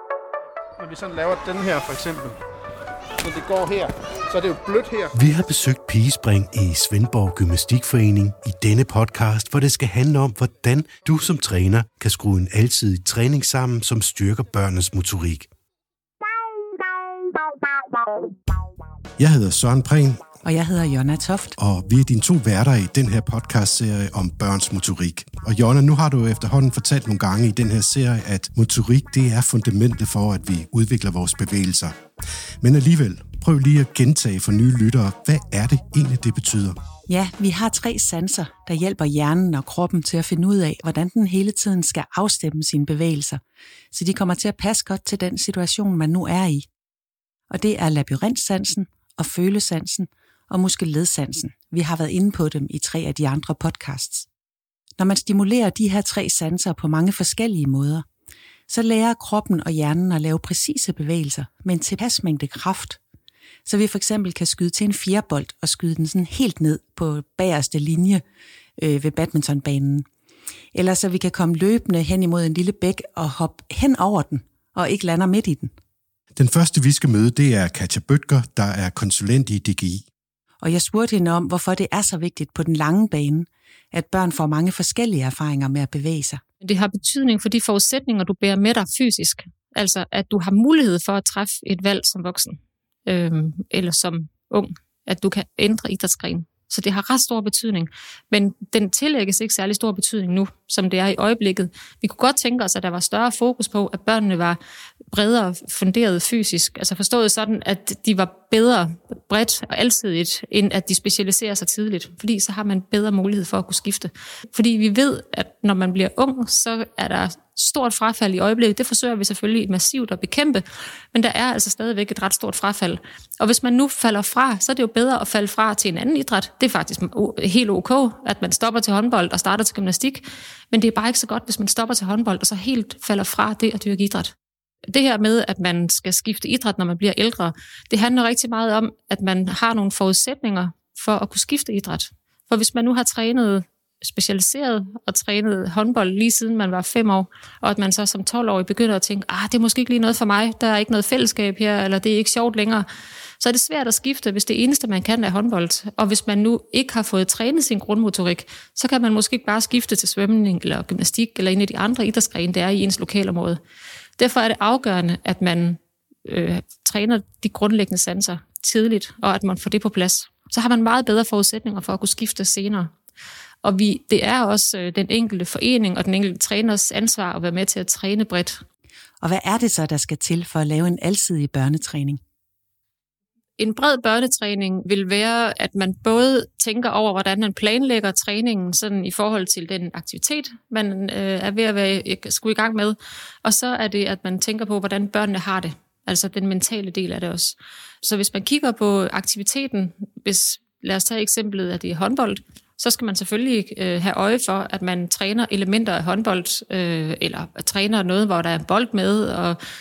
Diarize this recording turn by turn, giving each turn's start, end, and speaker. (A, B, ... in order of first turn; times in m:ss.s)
0:00.8-0:02.4 A
0:03.2-0:03.8 A
0:04.3-0:04.8 A
0:05.1-0:15.5 B
0:19.2-0:20.2 B
0:20.4-0:21.5 C
0:21.6-0:31.9 B
0:32.6-0:36.8 B
0:37.1-0:43.4 C
0:43.9-0:46.7 C
0:47.5-0:54.3 C
0:55.0-0:58.0 C
0:58.7-1:03.0 C
1:03.6-1:08.2 C
1:08.8-1:10.0 C
1:10.7-1:15.7 C
1:16.4-1:20.0 B
1:20.6-1:26.4 C
1:26.6-1:44.6 D
1:45.1-2:14.3 D
2:14.9-2:32.9 D
2:33.4-2:43.6 D
2:44.2-2:52.9 D
2:53.6-2:58.6 D
2:59.2-3:02.2 C
3:03.6-3:29.6 D